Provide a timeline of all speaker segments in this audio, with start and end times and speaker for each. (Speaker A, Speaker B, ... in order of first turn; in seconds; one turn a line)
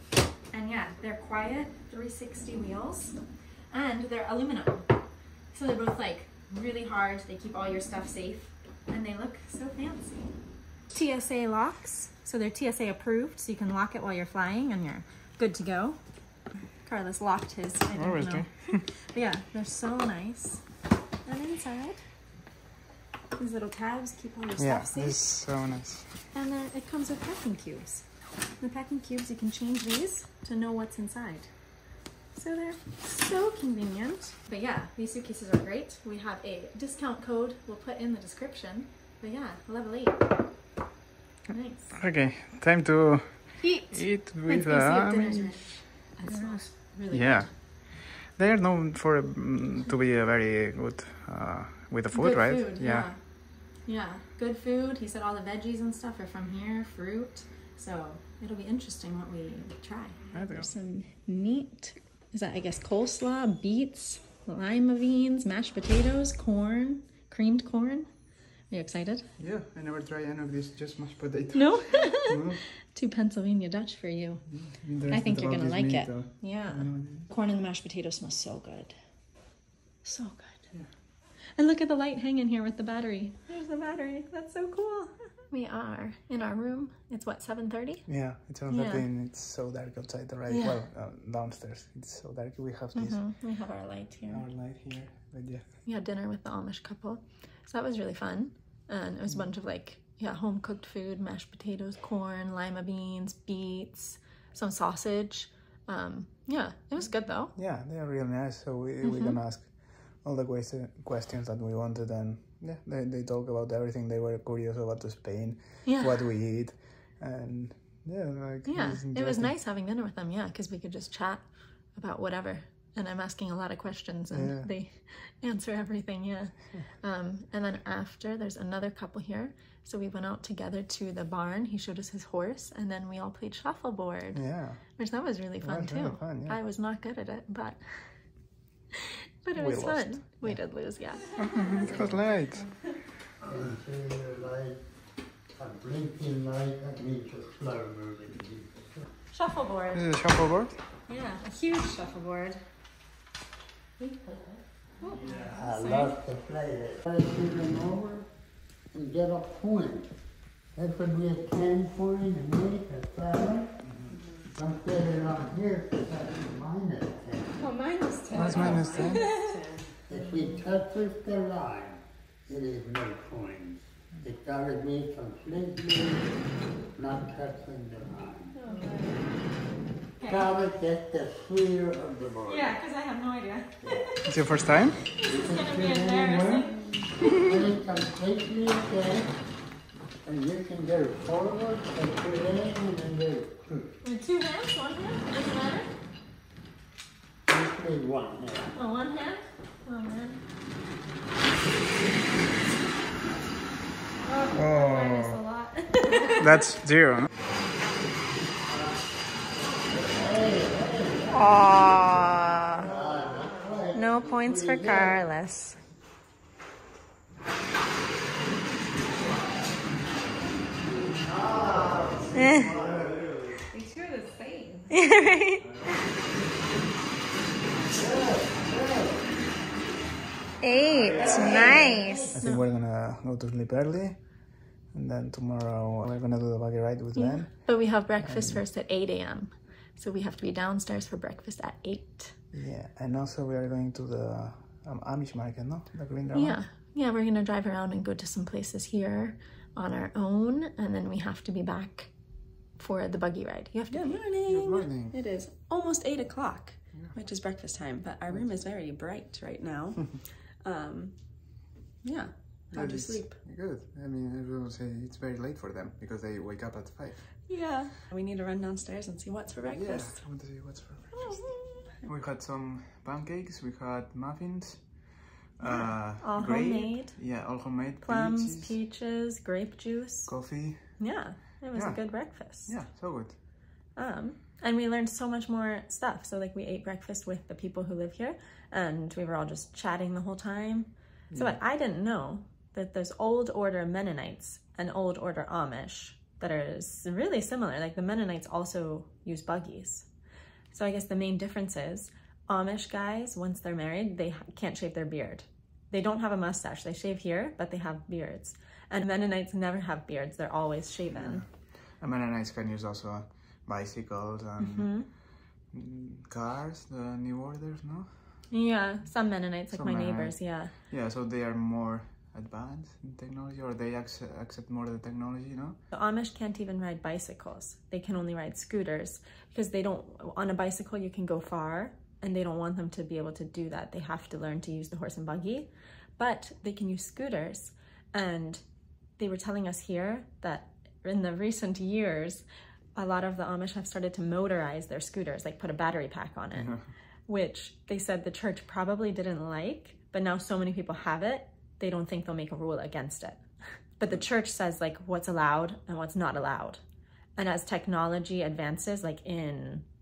Speaker A: 0.5-3.1
Speaker A: 3.7-4.9
Speaker A: 5.5-10.3
Speaker A: 10.9-16.0
Speaker A: 16.8-20.6
Speaker B: 17.9-18.8
Speaker A: 21.2-22.0
Speaker A: 23.4-25.2
Speaker B: 24.6-26.1
Speaker A: 26.3-28.0
Speaker A: 28.6-31.5
Speaker A: 32.4-40.2
Speaker A: 41.5-42.0
Speaker B: 41.9-45.6
Speaker A: 43.6-47.5
Speaker B: 46.2-53.1
Speaker A: 52.1-53.2
Speaker A: 53.8-68.1
Speaker B: 60.3-60.7
Speaker A: 68.7-69.3
Speaker B: 69.4-72.6
Speaker A: 71.5-74.4
Speaker B: 74.5-77.3
Speaker A: 75.1-79.0
Speaker A: 80.0-80.6
Speaker A: 81.6-88.0
Speaker B: 88.1-93.2
Speaker A: 88.7-89.0
Speaker A: 90.5-90.8
Speaker A: 92.9-94.4
Speaker B: 94.3-95.6
Speaker A: 95.8-107.5
Speaker B: 107.5-119.5
Speaker A: 109.0-109.3
Speaker A: 115.8-116.2
Speaker A: 118.6-134.4
Speaker B: 124.3-124.7
Speaker B: 134.3-134.8
Speaker A: 134.9-137.8
Speaker B: 135.6-136.6
Speaker A: 139.1-142.7
Speaker B: 139.5-140.6
Speaker B: 141.3-142.6
Speaker C: 141.8-142.2
Speaker C: 143.4-144.8
Speaker C: 145.5-148.9
Speaker A: 149.3-150.1
Speaker B: 149.9-150.8
Speaker A: 151.1-152.6
Speaker C: 154.0-154.6
Speaker A: 155.0-156.2
Speaker C: 155.3-158.3
Speaker C: 158.9-160.1
Speaker C: 160.7-163.8
Speaker B: 163.8-164.1
Speaker D: 164.1-164.5
Speaker C: 164.5-167.6
Speaker A: 167.6-169.5
Speaker B: 168.3-169.3
Speaker D: 168.4-170.5
Speaker C: 170.1-176.3
Speaker C: 176.9-178.5
Speaker A: 178.6-179.1
Speaker D: 178.7-179.1
Speaker A: 180.2-180.5
Speaker C: 180.2-182.8
Speaker A: 182.5-184.2
Speaker B: 184.2-185.0
Speaker A: 185.2-186.7
Speaker C: 185.2-189.3
Speaker C: 190.2-193.9
Speaker A: 194.0-195.9
Speaker C: 197.4-198.7
Speaker A: 198.7-200.4
Speaker A: 204.2-206.6
Speaker B: 204.5-205.4
Speaker B: 206.3-207.3
Speaker C: 209.9-211.6
Speaker A: 211.3-212.9
Speaker C: 212.7-215.2
Speaker A: 213.9-215.8
Speaker C: 221.1-223.2
Speaker A: 222.3-222.7
Speaker D: 223.7-225.0
Speaker A: 224.9-225.7
Speaker A: 230.6-232.6
Speaker B: 231.0-238.6
Speaker D: 231.1-232.3
Speaker A: 237.1-242.3
Speaker B: 242.5-246.6
Speaker A: 246.3-252.1
Speaker A: 252.8-261.1
Speaker B: 253.9-255.1
Speaker A: 262.0-263.4
Speaker B: 262.7-267.4
Speaker A: 267.5-270.2
Speaker B: 269.6-271.5
Speaker A: 271.1-271.9
Speaker B: 272.0-278.7
Speaker A: 275.6-277.1
Speaker A: 278.0-280.3
Speaker B: 280.3-281.0
Speaker A: 281.0-282.7
Speaker B: 281.7-283.4
Speaker A: 283.9-300.1
Speaker B: 291.3-291.6
Speaker A: 300.7-311.4
Speaker B: 311.1-315.2
Speaker A: 314.6-315.1
Speaker B: 315.7-318.1
Speaker A: 318.5-320.7
Speaker B: 319.7-325.8
Speaker A: 325.9-338.6
Speaker A: 339.2-342.4
Speaker A: 342.9-346.7
Speaker B: 346.6-346.9
Speaker A: 347.3-353.4
Speaker A: 354.0-356.8
Speaker A: 357.4-359.8